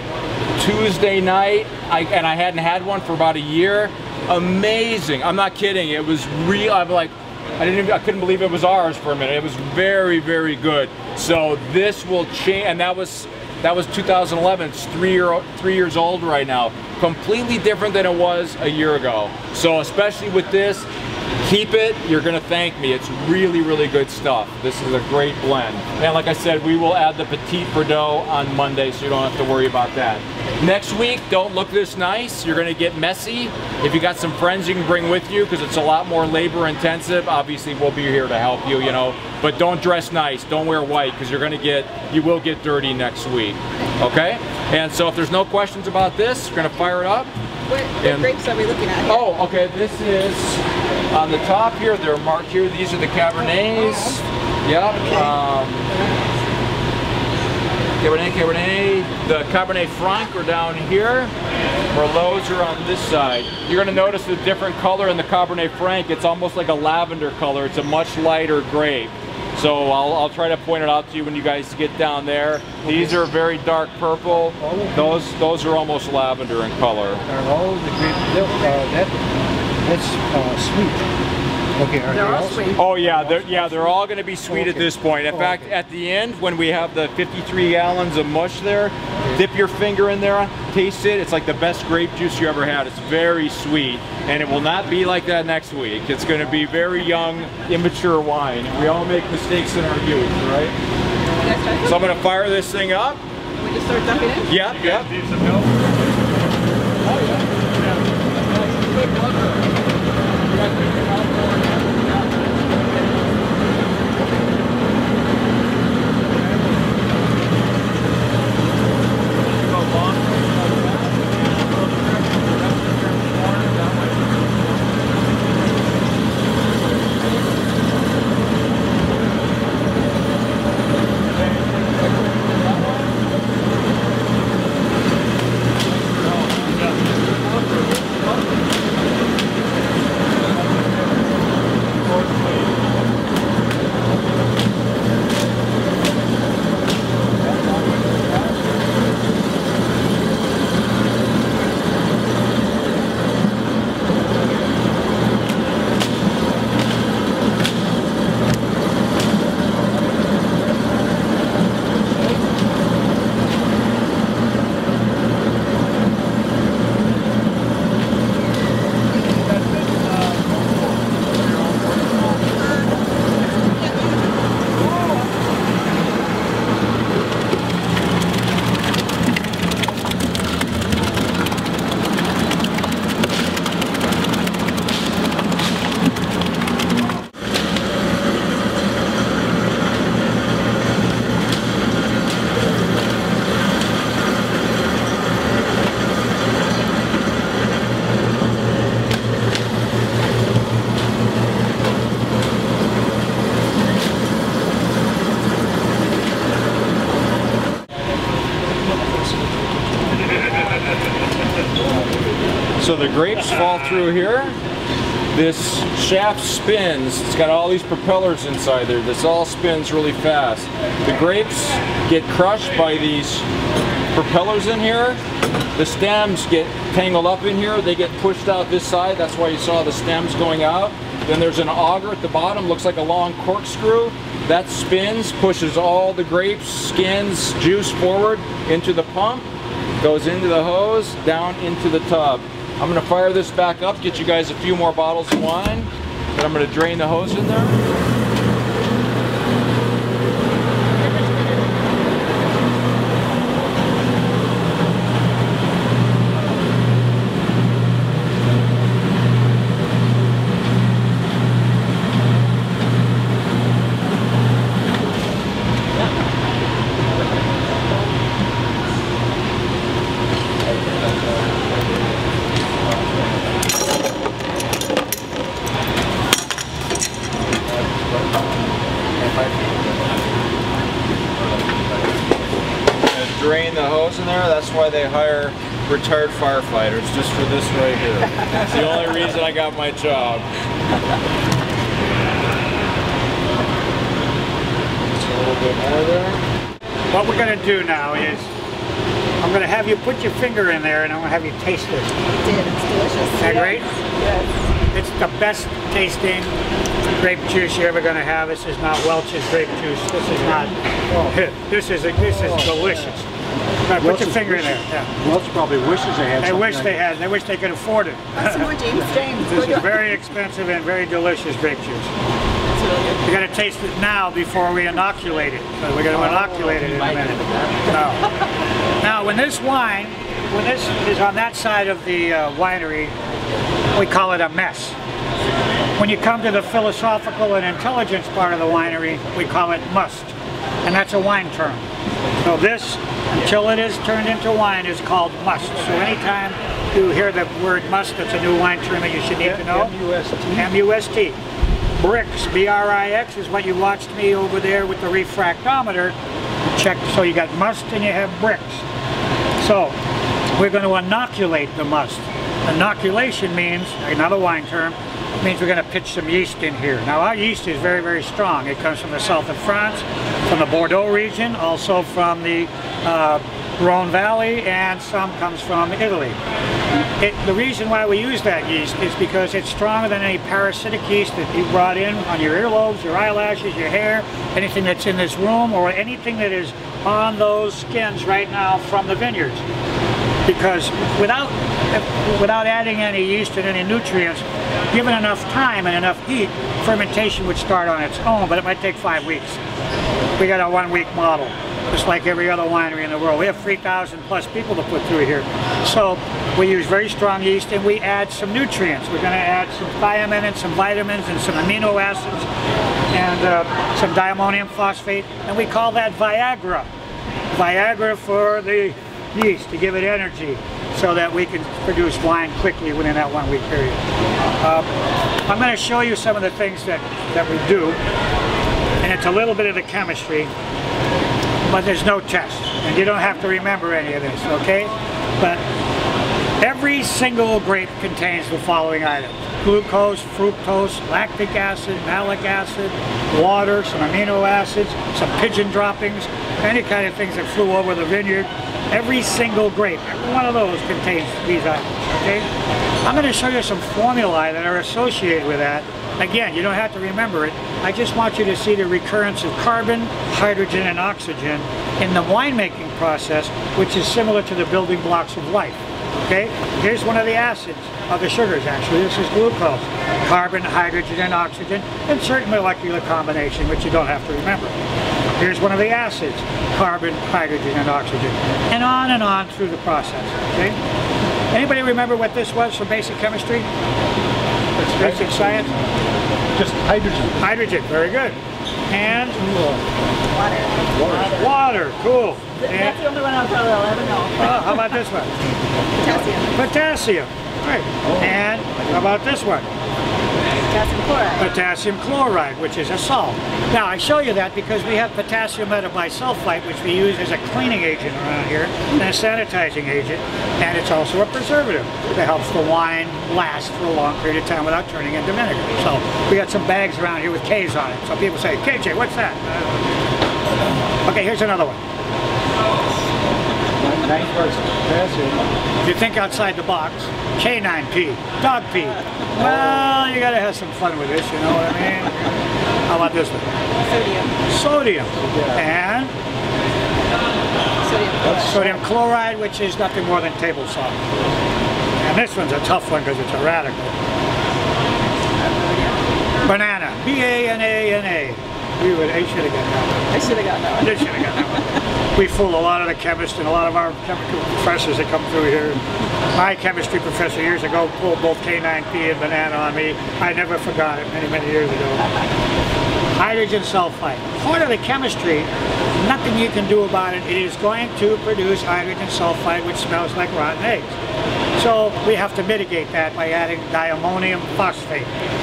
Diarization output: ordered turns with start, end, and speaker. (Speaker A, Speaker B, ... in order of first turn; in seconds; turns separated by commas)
Speaker A: 0.6-20.9, Speaker A: 21.4-47.3, Speaker B: 47.7-49.3, Speaker A: 48.0-48.3, Speaker A: 49.0-55.9, Speaker A: 58.0-61.3, Speaker A: 61.9-77.2, Speaker C: 72.8-73.1, Speaker C: 74.6-75.0, Speaker C: 77.3-79.2, Speaker C: 79.8-81.0, Speaker C: 81.8-83.9, Speaker A: 82.7-100.8, Speaker C: 84.5-85.7, Speaker B: 101.4-101.7, Speaker A: 101.8-103.2, Speaker B: 103.6-104.5, Speaker A: 104.5-105.2, Speaker A: 108.6-109.6, Speaker A: 110.5-112.8, Speaker A: 119.4-124.5, Speaker A: 131.4-133.1, Speaker A: 136.0-136.8, Speaker A: 212.8-214.6, Speaker A: 215.3-223.5, Speaker A: 224.1-225.2, Speaker A: 225.8-239.5, Speaker A: 240.0-247.8, Speaker A: 283.0-290.5, Speaker A: 295.8-296.1, Speaker D: 297.1-298.5, Speaker D: 299.4-302.1, Speaker B: 302.4-303.6, Speaker D: 303.4-303.9, Speaker D: 304.9-306.5, Speaker D: 307.1-313.3, Speaker D: 313.9-315.1, Speaker C: 314.0-317.0, Speaker D: 316.4-318.7, Speaker B: 318.4-319.9, Speaker D: 319.4-322.1, Speaker D: 323.2-328.2, Speaker D: 329.0-333.1, Speaker D: 333.9-335.0, Speaker D: 335.9-341.9, Speaker D: 342.4-349.9, Speaker C: 349.4-350.6, Speaker D: 350.5-351.4, Speaker D: 352.0-356.2, Speaker D: 356.7-358.9, Speaker D: 359.6-360.0, Speaker D: 360.5-376.4, Speaker D: 377.2-389.6, Speaker D: 390.4-399.6, Speaker D: 400.4-412.5, Speaker D: 413.1-416.9, Speaker D: 417.5-424.0, Speaker D: 424.6-424.9, Speaker D: 425.5-428.0, Speaker D: 429.0-430.5, Speaker D: 431.6-435.6, Speaker D: 436.6-452.5, Speaker D: 453.0-474.8, Speaker D: 475.4-480.8, Speaker D: 481.5-483.7, Speaker C: 484.8-485.8, Speaker D: 484.9-485.8, Speaker C: 486.6-487.4, Speaker D: 487.4-488.4, Speaker D: 488.9-489.5, Speaker C: 489.5-489.8, Speaker B: 490.3-490.7, Speaker C: 490.9-491.3, Speaker D: 491.1-493.0, Speaker B: 492.7-494.3, Speaker D: 494.4-495.3, Speaker B: 496.0-496.6, Speaker D: 496.5-499.7, Speaker B: 500.7-501.4, Speaker D: 501.4-519.7, Speaker D: 521.0-521.8, Speaker C: 523.8-525.4, Speaker D: 525.8-533.5, Speaker B: 533.9-534.3, Speaker D: 534.5-536.1, Speaker B: 537.9-538.2, Speaker D: 538.3-541.0, Speaker D: 542.0-544.0, Speaker D: 546.4-550.2, Speaker B: 550.2-550.9, Speaker D: 550.8-555.8, Speaker D: 556.3-562.0, Speaker D: 563.2-571.0, Speaker D: 571.6-575.1